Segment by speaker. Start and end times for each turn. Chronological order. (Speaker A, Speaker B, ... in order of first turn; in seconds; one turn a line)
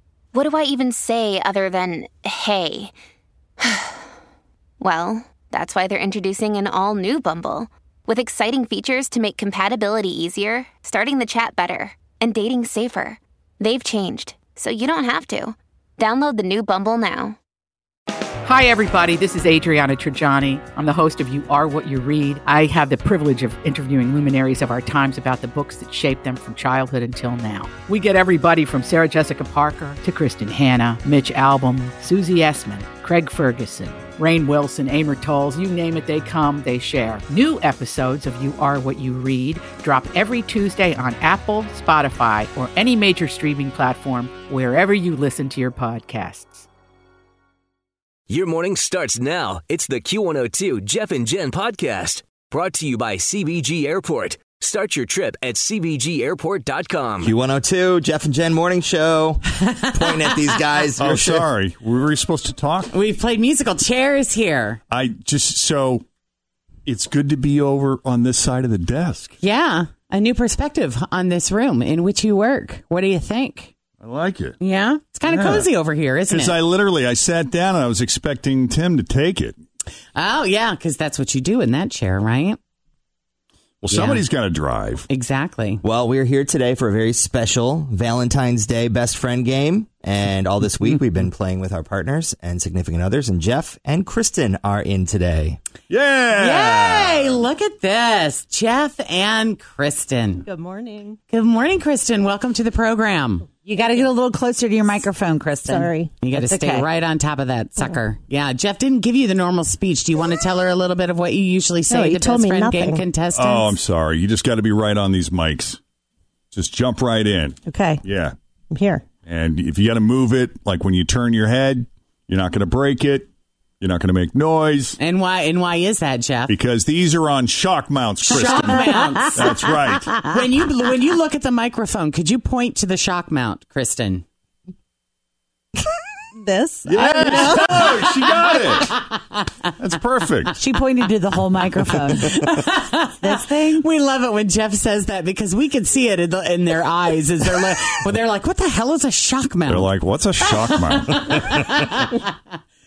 Speaker A: 0.3-2.9
Speaker A: 3.6-4.0
Speaker A: 4.8-17.4
Speaker B: 18.4-46.7
Speaker C: 48.3-57.3
Speaker D: 57.2-61.5
Speaker E: 61.0-62.9
Speaker F: 62.9-64.8
Speaker E: 64.9-66.0
Speaker E: 66.9-69.3
Speaker F: 69.4-73.7
Speaker E: 74.0-74.6
Speaker F: 74.6-76.6
Speaker E: 75.3-75.7
Speaker E: 76.3-79.6
Speaker F: 80.2-82.6
Speaker E: 83.8-85.1
Speaker F: 83.9-84.2
Speaker F: 85.1-85.8
Speaker D: 85.8-95.6
Speaker E: 95.9-97.4
Speaker F: 96.4-100.5
Speaker G: 100.5-101.2
Speaker F: 101.3-103.5
Speaker H: 103.7-106.8
Speaker G: 105.7-106.1
Speaker F: 106.2-113.8
Speaker G: 107.8-108.0
Speaker G: 111.9-113.0
Speaker E: 113.3-115.8
Speaker E: 116.5-118.3
Speaker G: 117.7-118.0
Speaker G: 118.7-119.0
Speaker E: 119.2-123.3
Speaker E: 123.8-125.0
Speaker F: 125.0-126.5
Speaker E: 126.5-130.3
Speaker F: 128.2-129.7
Speaker F: 130.2-134.2
Speaker G: 136.3-137.9
Speaker E: 136.9-139.0
Speaker F: 137.3-139.1
Speaker E: 139.8-140.6
Speaker H: 140.6-142.6
Speaker F: 142.1-152.3
Speaker H: 143.2-143.8
Speaker E: 149.7-151.4